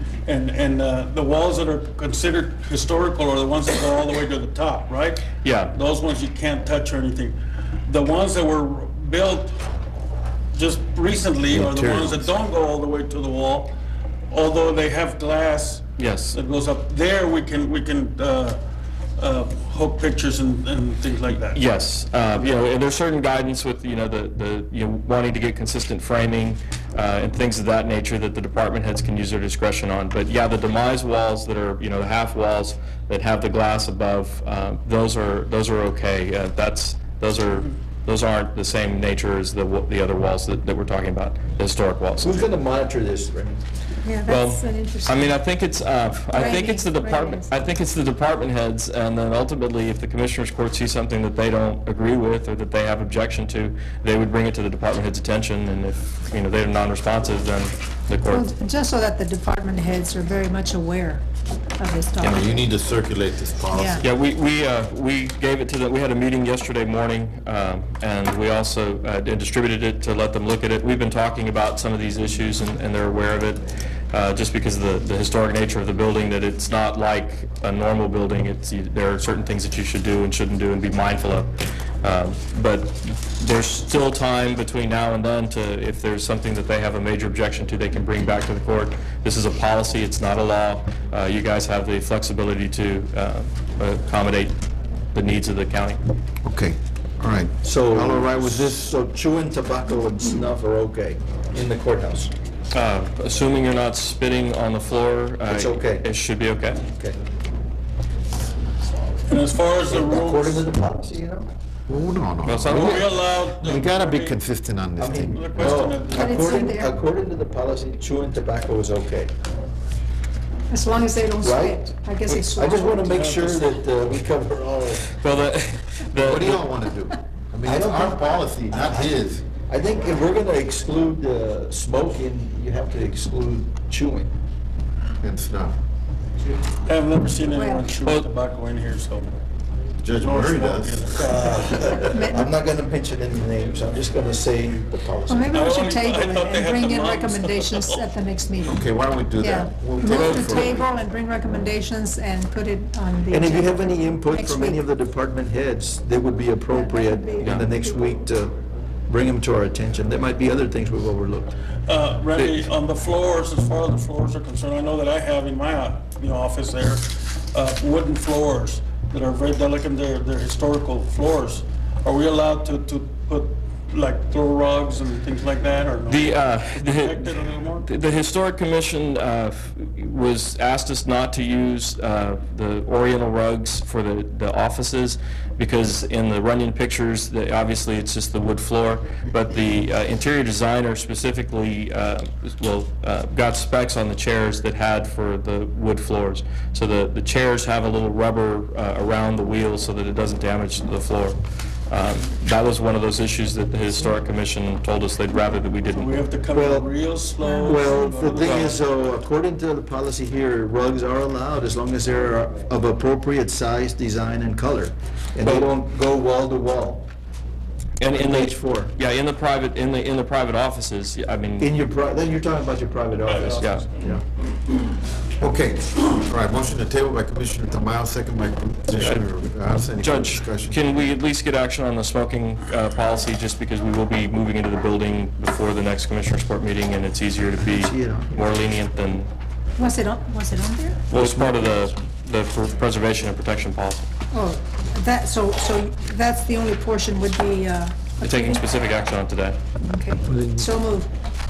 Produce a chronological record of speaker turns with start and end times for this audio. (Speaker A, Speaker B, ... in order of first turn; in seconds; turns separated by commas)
Speaker A: 0.2-9.6, Speaker B: 5.4-5.8, Speaker A: 10.5-13.7, Speaker C: 11.5-12.3, Speaker A: 14.3-18.6, Speaker B: 16.0-16.4, Speaker A: 19.2-21.6, Speaker B: 21.4-42.4, Speaker D: 42.2-43.6, Speaker E: 44.0-45.4, Speaker B: 44.3-58.5, Speaker E: 46.3-47.6, Speaker E: 58.3-61.2, Speaker E: 61.8-62.7, Speaker C: 62.3-64.1, Speaker E: 63.7-64.0, Speaker B: 64.0-94.6, Speaker B: 95.1-96.0, Speaker C: 96.4-98.8, Speaker D: 97.6-102.3, Speaker B: 102.7-106.8, Speaker D: 105.5-106.1, Speaker D: 106.8-107.2, Speaker A: 109.3-110.7, Speaker D: 109.9-111.5, Speaker C: 111.9-115.8, Speaker B: 112.4-113.2, Speaker A: 112.6-114.4, Speaker D: 115.0-119.3, Speaker A: 115.3-116.7, Speaker E: 116.2-116.9, Speaker E: 120.7-123.2, Speaker D: 121.4-125.2, Speaker A: 123.1-123.7, Speaker B: 125.2-126.7, Speaker C: 126.2-129.4, Speaker D: 127.6-134.3, Speaker C: 135.2-135.8, Speaker A: 136.8-139.3, Speaker E: 137.5-137.9, Speaker C: 140.0-141.1, Speaker A: 140.1-142.1, Speaker D: 141.2-145.6, Speaker E: 142.0-142.4, Speaker E: 145.3-154.8, Speaker A: 145.5-148.1, Speaker C: 148.7-150.8, Speaker D: 153.3-158.5, Speaker E: 156.7-157.6, Speaker D: 159.1-161.5, Speaker A: 161.9-177.9, Speaker B: 162.3-162.6, Speaker B: 176.1-201.4, Speaker B: 201.9-206.1, Speaker A: 205.9-208.8, Speaker D: 206.5-206.9, Speaker E: 207.4-208.0, Speaker D: 207.6-217.1, Speaker B: 208.4-208.7, Speaker B: 215.4-215.7, Speaker B: 218.0-221.7, Speaker D: 218.1-218.9, Speaker D: 221.6-224.2, Speaker A: 223.2-224.0, Speaker C: 225.4-230.9, Speaker B: 228.9-229.2, Speaker B: 229.9-239.3, Speaker D: 237.7-238.6, Speaker E: 239.8-241.0, Speaker B: 241.1-244.1, Speaker D: 241.1-241.8, Speaker E: 244.3-248.7, Speaker B: 248.2-249.6, Speaker E: 249.8-251.1